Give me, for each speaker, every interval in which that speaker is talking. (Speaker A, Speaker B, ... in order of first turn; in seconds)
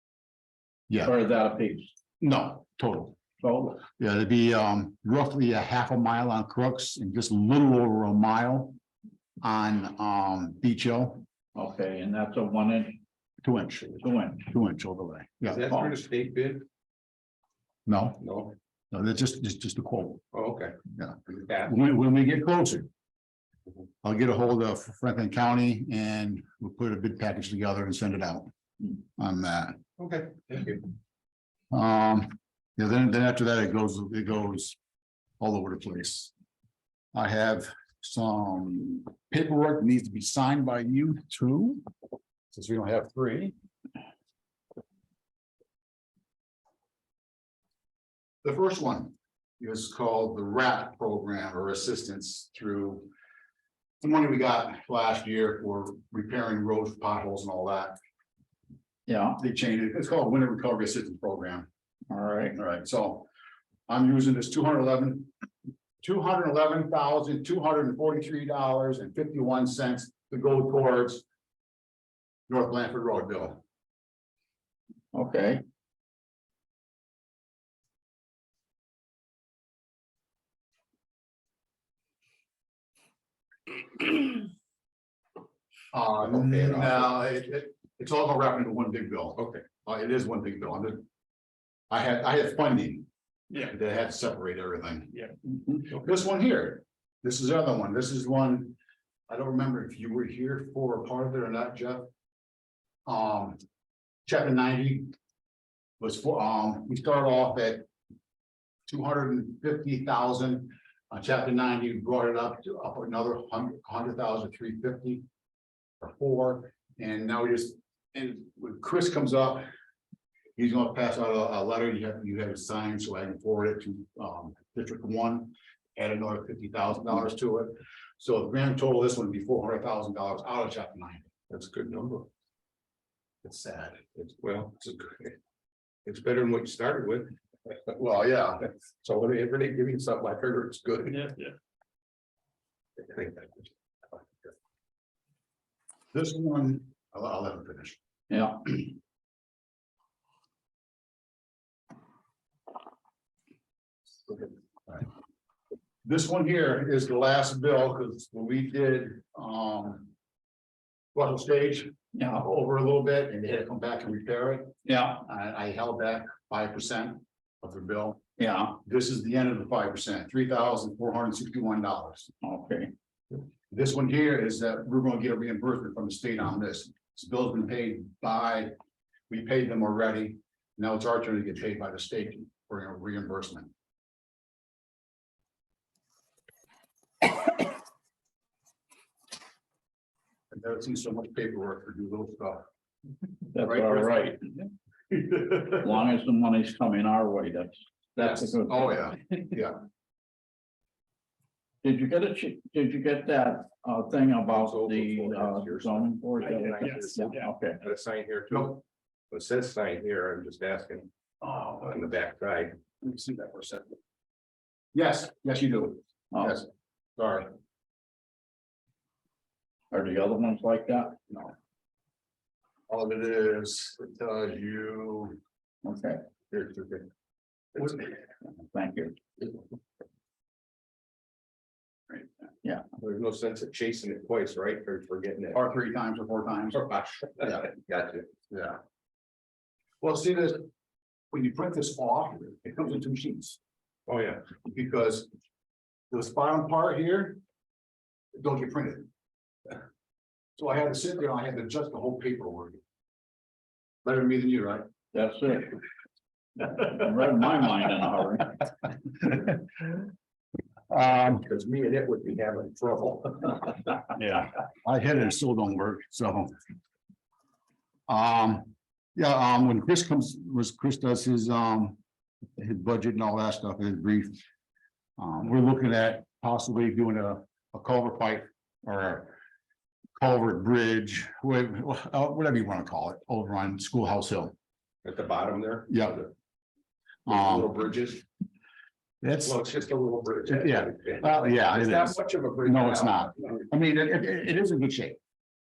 Speaker A: 0.9-1.1, 2.2-3.2, 3.7-8.8, 9.4-11.2, 13.4-15.8, 17.9-18.2, 18.9-20.2, 20.9-22.9, 24.0-28.5, 29.2-29.8, 31.7-34.8, 35.4-36.3, 37.1-41.8, 42.5-43.5, 48.4-53.1, 54.0-58.0, 59.4-61.7, 62.5-63.3, 63.9-65.3, 66.0-71.2, 72.5-73.6, 85.9-91.0, 91.9-98.8, 99.3-102.1, 103.0-103.6, 104.2-105.1, 106.0-107.9, 108.9-115.2, 116.0-119.7, 120.6-131.3, 133.4-134.0, 137.9-138.7, 146.1-148.0, 154.3-155.1, 156.0-160.1, 161.1-172.3, 173.7-178.7, 179.3-183.7, 190.5-192.6, 193.6-194.4, 195.1-195.8, 198.2-199.8, 208.5-208.8, 211.4-212.0, 213.0-213.9, 214.9-217.5, 222.9-225.4, 226.5-227.0, 235.5-236.8, 238.5-238.8, 240.0-240.7, 241.3-243.6, 244.6-245.3, 246.1-247.4, 248.3-249.1, 250.6-252.8, 254.0-254.8, 260.9-261.4, 264.1-266.5, 268.1-272.0, 272.6-274.4, 275.2-279.4, 280.2-284.5, 285.9-286.2, 287.2-287.7, 289.2-289.6, 290.5-295.2
Speaker B: 1.0-1.9, 3.4-3.8, 11.5-13.0, 14.0-14.4, 59.1-59.4, 62.1-62.6, 75.1-75.6, 148.3-148.7, 162.1-162.4, 164.8-165.2, 168.4-168.8, 172.4-172.9, 193.5-194.4, 195.7-199.2, 201.8-207.8, 219.9-221.2, 225.8-226.2, 228.7-229.2, 255.1-255.8, 256.6-258.6
Speaker C: 15.4-16.6, 18.2-18.5, 20.3-20.8, 21.3-21.7, 30.0-30.9, 86.2-87.1, 89.4-89.6, 131.5-132.3, 134.2-135.4, 136.0-137.8, 139.0-141.4, 143.0-144.5, 204.5-211.1, 211.8-212.8, 233.0-235.6, 236.7-238.3, 244.1-244.5, 261.0-264.0, 285.0-286.3, 287.2-288.2, 289.4-293.6